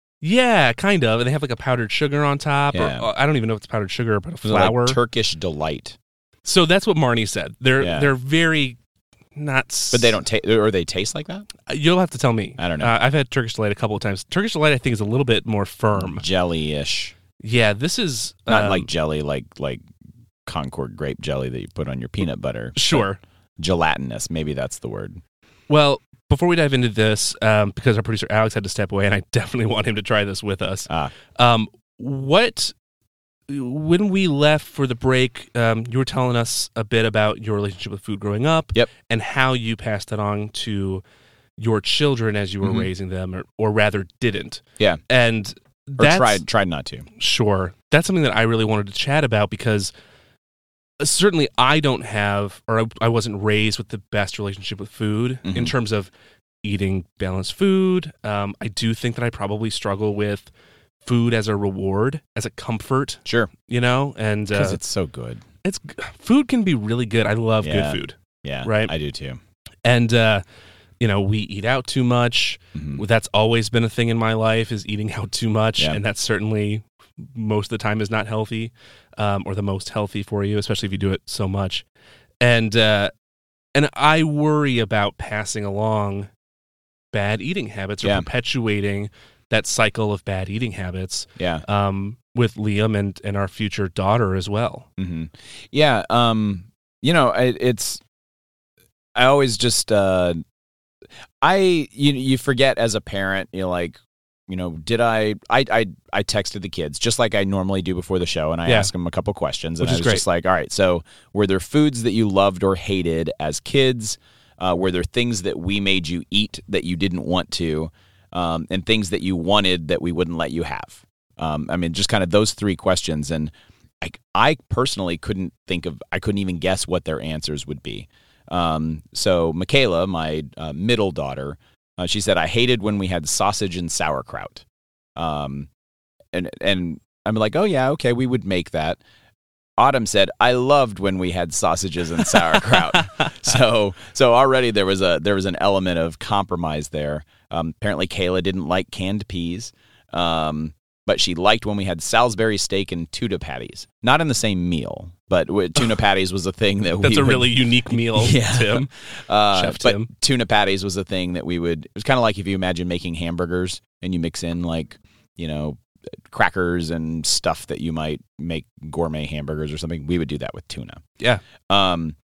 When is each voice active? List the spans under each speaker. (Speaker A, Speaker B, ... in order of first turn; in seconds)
Speaker A: 0.2-5.0, 6.5-8.8, 9.4-10.2, 11.7-16.2, 17.4-18.9, 22.8-23.2, 25.7-32.7, 33.5-41.0, 41.6-46.4, 47.2-49.9, 51.0-56.1, 56.6-60.5, 61.0-64.8, 65.7-68.9, 69.8-70.4, 71.0-81.8, 82.4-83.1, 83.8-86.3, 87.1-94.9, 109.8-110.2, 157.0-158.9, 159.5-160.1
Speaker B: 2.7-3.1, 4.5-6.0, 7.8-8.1, 9.9-11.5, 12.6-12.9, 16.0-17.1, 18.5-19.8, 20.5-23.0, 23.6-25.2, 30.9-31.1, 42.6-42.9, 46.0-47.1, 55.5-55.7, 63.2-63.5, 64.5-65.4, 67.6-69.4, 72.8-73.0, 88.0-88.3, 91.4-91.6, 95.0-98.0, 99.2-100.4, 101.4-134.6, 135.2-135.7, 136.3-139.0, 139.8-171.0, 171.7-172.2